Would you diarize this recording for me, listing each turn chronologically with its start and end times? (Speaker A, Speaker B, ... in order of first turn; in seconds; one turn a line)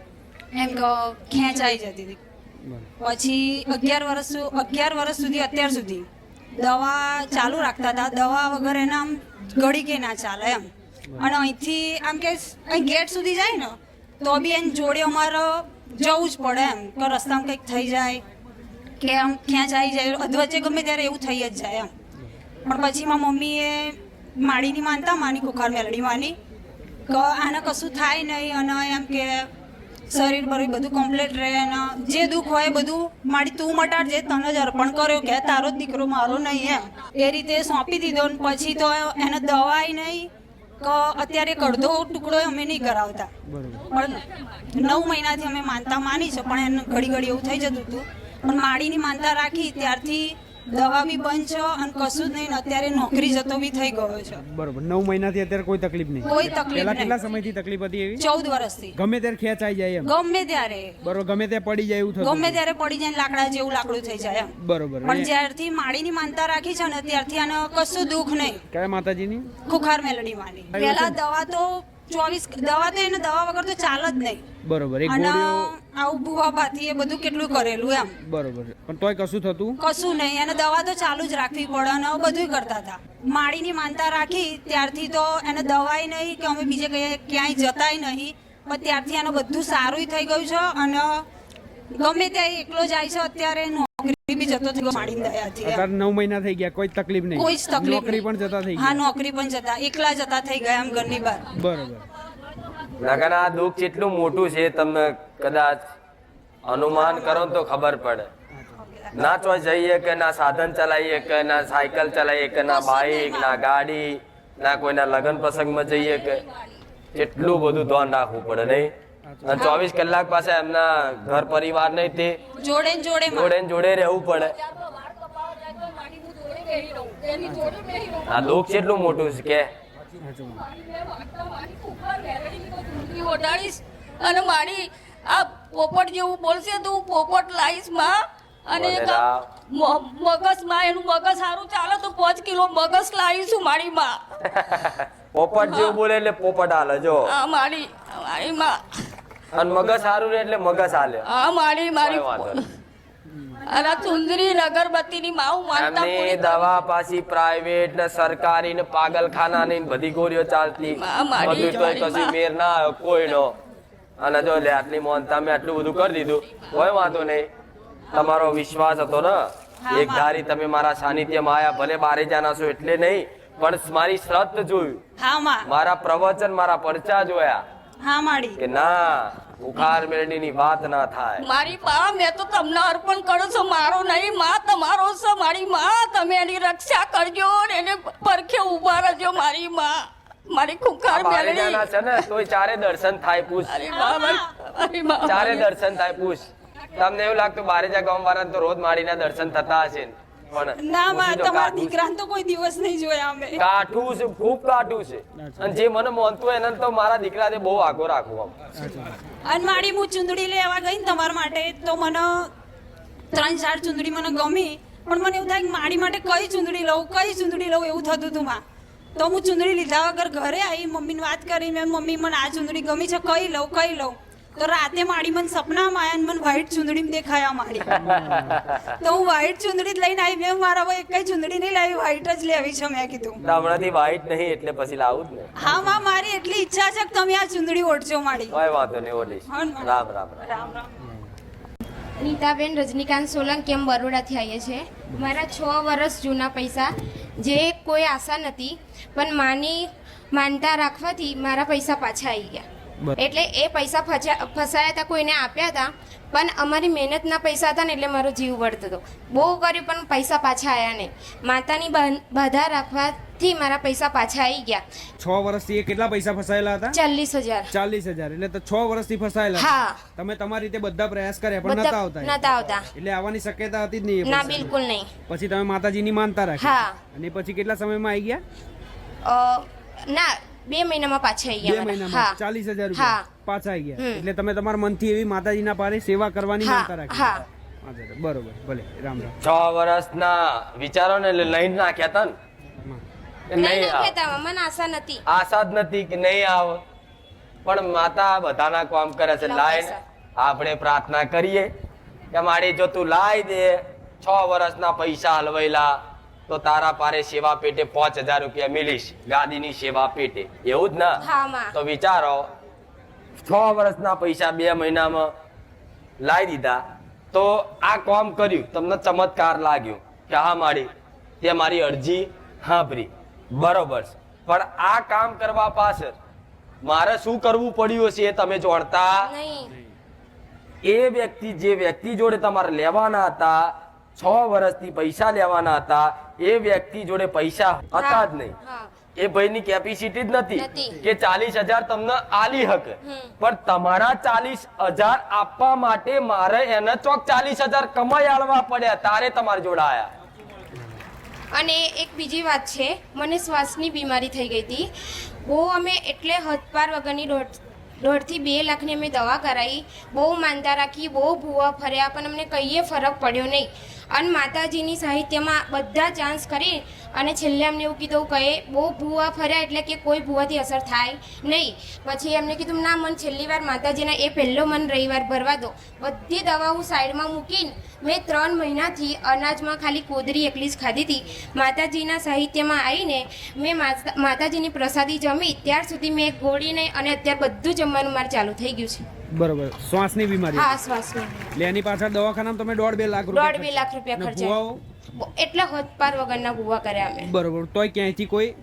Speaker A: 0.5-2.2
Speaker B: 2.6-2.9
Speaker A: 3.0-18.2
Speaker A: 19.0-21.9
Speaker A: 22.6-26.4
Speaker A: 27.1-29.5
Speaker A: 30.1-43.3
Speaker B: 43.4-43.9
Speaker A: 43.9-54.4
Speaker B: 54.4-58.2
Speaker A: 56.2-57.1
Speaker A: 58.2-58.9
Speaker B: 58.9-60.1
Speaker A: 60.0-61.0
Speaker B: 61.0-62.6
Speaker A: 62.2-64.5
Speaker B: 64.5-65.3
Speaker A: 65.0-68.6
Speaker B: 68.7-69.5
Speaker A: 69.7-74.4
Speaker B: 70.7-71.2
Speaker B: 74.6-75.7
Speaker A: 75.0-78.1
Speaker B: 78.2-79.8
Speaker A: 79.8-91.2
Speaker A: 91.9-95.8
Speaker B: 94.9-99.0
Speaker A: 97.4-98.2
Speaker A: 98.8-101.4
Speaker B: 101.5-102.1
Speaker C: 103.0-105.8
Speaker C: 106.7-108.3
Speaker A: 108.8-109.1
Speaker C: 109.1-116.4
Speaker A: 112.7-113.6
Speaker C: 117.1-118.9
Speaker B: 119.3-119.8
Speaker C: 119.4-122.4
Speaker A: 122.6-123.5
Speaker C: 123.3-124.5
Speaker D: 124.7-128.5
Speaker B: 127.5-127.8
Speaker C: 128.3-129.7
Speaker B: 130.2-130.6
Speaker D: 130.8-144.2
Speaker C: 138.7-139.5
Speaker C: 144.5-147.3
Speaker D: 145.6-146.0
Speaker D: 147.3-148.8
Speaker C: 149.5-151.2
Speaker D: 151.2-152.7
Speaker C: 152.0-152.6
Speaker D: 153.7-156.8
Speaker C: 155.7-163.5
Speaker D: 160.9-162.3
Speaker B: 161.4-162.2
Speaker C: 164.2-167.5
Speaker C: 168.1-175.0
Speaker A: 169.8-170.3
Speaker A: 175.2-175.7
Speaker C: 175.6-177.6
Speaker A: 178.0-178.6
Speaker C: 178.6-181.4
Speaker D: 181.4-192.3
Speaker C: 191.1-193.8
Speaker D: 193.6-195.7
Speaker A: 193.9-194.5
Speaker C: 195.2-202.0
Speaker A: 200.8-203.6
Speaker C: 203.6-208.5
Speaker B: 205.4-205.7
Speaker B: 208.8-209.2
Speaker A: 209.4-212.5
Speaker A: 213.3-218.6
Speaker A: 219.2-227.9
Speaker B: 228.0-228.6
Speaker C: 228.1-228.6
Speaker A: 229.0-233.4
Speaker B: 233.4-233.8
Speaker C: 233.4-235.5
Speaker A: 235.6-238.6
Speaker B: 235.7-236.0
Speaker C: 238.5-240.4
Speaker A: 239.5-240.9
Speaker B: 241.0-241.3
Speaker E: 242.2-252.7
Speaker E: 253.2-264.8
Speaker B: 265.2-267.0
Speaker E: 266.9-267.7
Speaker B: 267.7-274.7
Speaker E: 269.6-270.0
Speaker E: 271.6-272.9
Speaker E: 274.2-275.1
Speaker B: 275.3-278.4
Speaker E: 276.6-277.0
Speaker E: 279.2-282.4
Speaker B: 281.6-289.3
Speaker E: 282.9-283.2
Speaker E: 284.0-284.2
Speaker E: 286.6-287.4
Speaker C: 289.4-292.3
Speaker C: 293.5-294.1
Speaker E: 293.5-295.2
Speaker C: 295.2-296.8
Speaker C: 297.6-301.7
Speaker E: 299.3-300.0
Speaker C: 302.3-306.0
Speaker C: 306.5-311.2
Speaker E: 311.2-311.7
Speaker C: 311.7-312.5
Speaker C: 313.4-315.3
Speaker C: 316.2-316.8
Speaker C: 317.3-320.9
Speaker C: 321.4-326.1
Speaker C: 326.8-329.3
Speaker E: 329.2-329.7
Speaker C: 330.8-338.5
Speaker E: 337.9-339.0
Speaker C: 339.1-350.1
Speaker E: 340.6-341.0
Speaker E: 343.0-343.3
Speaker E: 351.5-354.9
Speaker E: 355.4-389.0
Speaker B: 389.3-390.7
Speaker E: 390.5-391.5
Speaker B: 391.6-394.8
Speaker E: 393.3-394.6
Speaker E: 395.1-397.3
Speaker B: 397.2-398.5